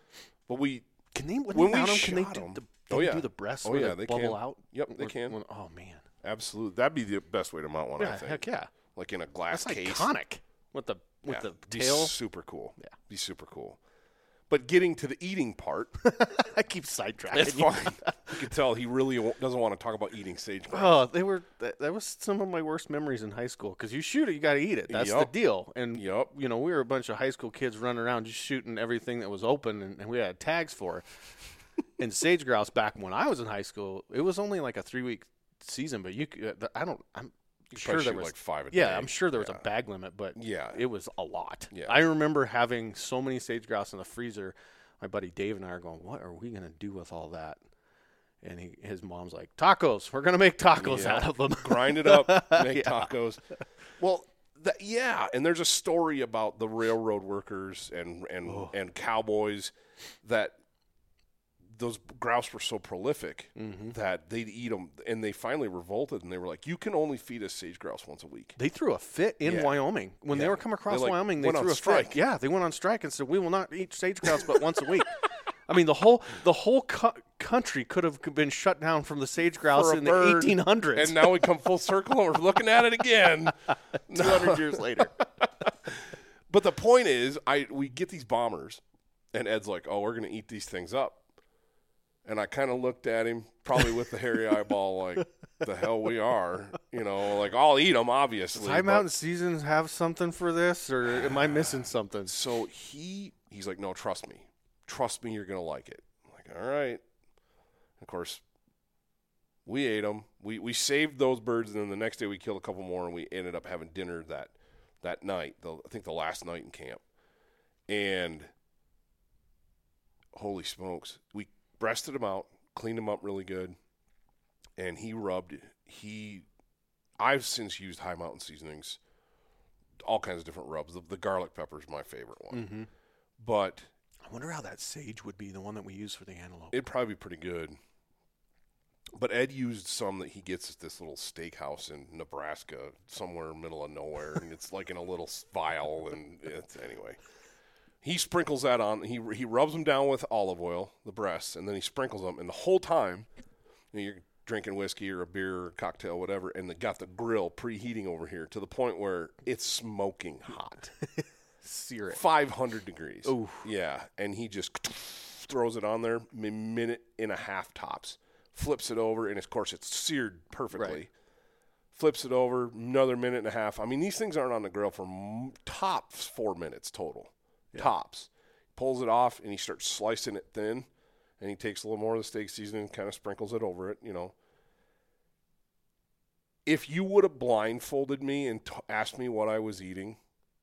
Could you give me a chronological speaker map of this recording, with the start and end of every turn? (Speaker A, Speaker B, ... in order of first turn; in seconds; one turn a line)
Speaker A: 0.5-0.9
Speaker B: 1.1-6.0
Speaker A: 1.5-5.4
Speaker A: 6.2-10.1
Speaker B: 8.0-8.7
Speaker B: 9.5-12.2
Speaker A: 11.2-13.8
Speaker A: 14.5-16.0
Speaker B: 16.0-18.5
Speaker A: 17.3-21.0
Speaker B: 20.7-31.1
Speaker A: 24.9-25.3
Speaker A: 25.9-26.3
Speaker B: 32.0-47.6
Speaker A: 37.7-39.6
Speaker A: 40.4-40.8
Speaker A: 41.7-42.0
Speaker B: 48.4-53.1
Speaker A: 50.8-53.4
Speaker A: 54.0-60.6
Speaker B: 58.5-58.7
Speaker A: 61.7-68.5
Speaker B: 63.6-64.0
Speaker B: 68.6-75.2
Speaker A: 69.4-69.8
Speaker A: 70.3-72.2
Speaker B: 75.7-81.3
Speaker A: 79.7-83.5
Speaker A: 84.1-88.8
Speaker B: 84.1-85.2
Speaker A: 89.3-91.2
Speaker A: 92.2-99.1
Speaker B: 98.5-102.3
Speaker A: 102.2-107.0
Speaker A: 108.0-108.4
Speaker A: 109.7-117.0
Speaker A: 117.9-118.5
Speaker A: 120.3-123.8
Speaker A: 124.8-126.5
Speaker A: 127.2-129.0
Speaker A: 130.0-132.7
Speaker B: 132.5-132.9
Speaker A: 133.4-133.9
Speaker B: 134.2-136.8
Speaker A: 136.7-137.8
Speaker A: 139.1-147.2
Speaker A: 148.0-153.3
Speaker A: 153.9-160.9
Speaker B: 161.1-162.2
Speaker A: 162.1-171.1
Speaker B: 163.2-163.7
Speaker B: 170.7-171.0
Speaker A: 171.9-180.9
Speaker A: 181.4-184.3
Speaker A: 186.6-190.2